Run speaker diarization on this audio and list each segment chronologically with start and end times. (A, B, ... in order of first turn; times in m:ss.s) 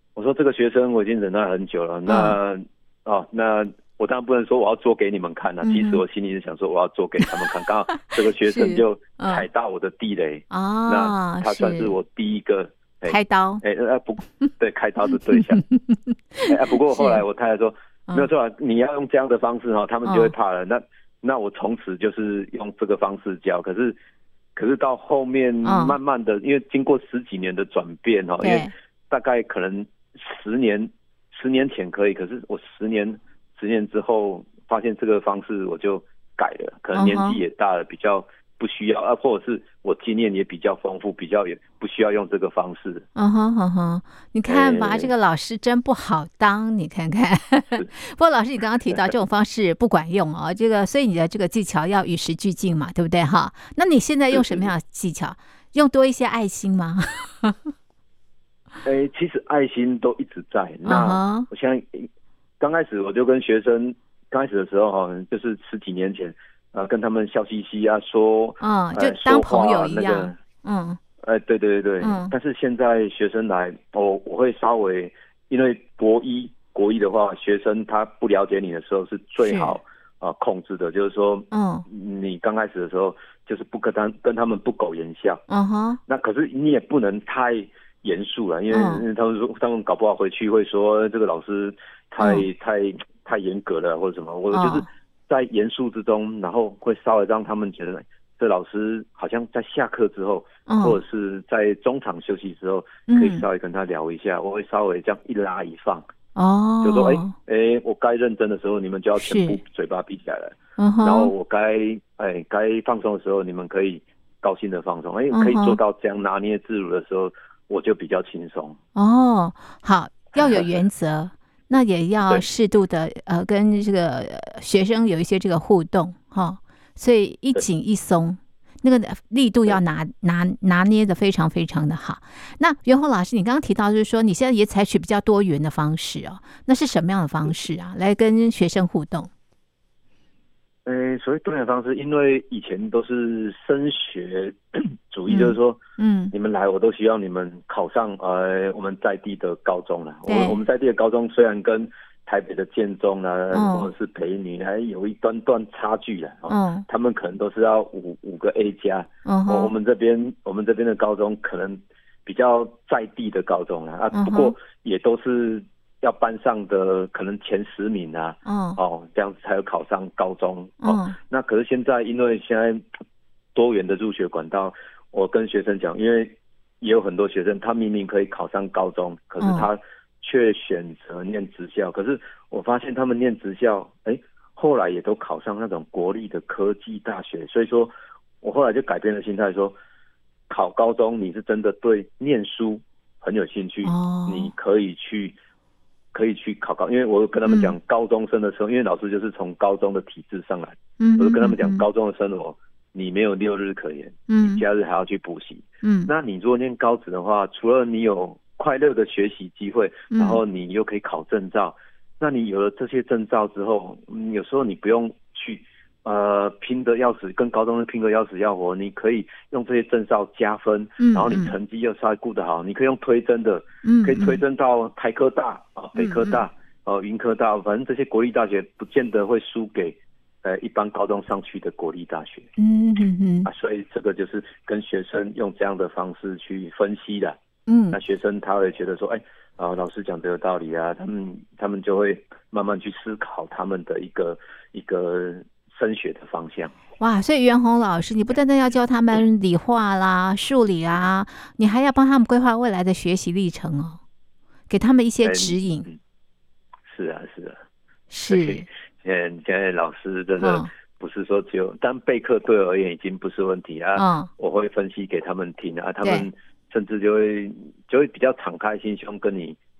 0:00.2-0:15.6 A
0:02.0-0:02.4 B
0:05.6-0:06.0 B
0:08.4-0:09.4 B
0:10.5-0:11.9 B
0:13.1-0:13.6 B
0:15.2-0:17.2 B
0:16.4-0:24.0 A
0:20.0-0:20.3 B
0:24.6-0:43.1 A
0:25.6-0:26.0 B
0:28.4-0:28.7 B
0:36.9-0:37.4 B
0:43.1-0:57.7 B
0:44.4-0:45.1 A
0:54.3-0:54.7 A
0:58.8-1:02.1 A
1:00.8-1:01.5 B
1:02.6-1:10.4 A
1:08.6-1:11.0 B
1:11.2-1:25.4 A
1:12.0-1:12.3 B
1:19.4-1:19.8 B
1:21.5-1:21.8 B
1:25.5-1:26.0 B
1:26.1-1:46.1 A
1:28.7-1:29.0 B
1:32.2-1:32.4 B
1:34.5-1:34.8 B
1:40.7-1:41.0 B
1:43.1-1:43.4 B
1:46.3-1:47.3 B
1:46.8-1:58.8 A
1:49.2-1:49.6 B
1:50.8-1:51.3 B
1:55.3-1:55.8 B
1:58.9-2:19.3 B
2:00.4-2:00.7 A
2:20.8-2:25.8 A
2:25.3-2:26.3 B
2:26.3-2:52.8 A
2:30.3-2:30.6 B
2:33.5-2:33.9 B
2:36.5-2:36.8 B
2:39.2-2:39.7 B
2:44.1-2:44.5 B
2:48.4-2:48.8 B
2:50.8-2:51.2 B
2:53.5-3:09.7 A
2:59.4-2:59.7 B
3:10.5-3:15.4 A
3:13.8-3:14.5 B
3:16.1-3:52.5 A
3:17.4-3:17.7 B
3:21.0-3:21.8 B
3:24.3-3:24.6 B
3:25.8-3:26.1 B
3:30.1-3:30.4 B
3:41.0-3:41.5 B
3:43.8-3:44.4 B
3:46.0-3:46.4 B
3:52.6-3:53.5 B
3:53.4-3:57.4 A
3:57.7-3:58.0 B
3:57.9-4:06.7 A
4:07.0-4:14.0 B
4:14.7-4:15.9 B
4:15.2-4:16.0 A
4:16.9-4:17.6 A
4:18.1-4:18.7 B
4:18.3-4:29.6 A
4:20.4-4:20.7 B
4:24.0-4:24.3 B
4:26.0-4:26.3 B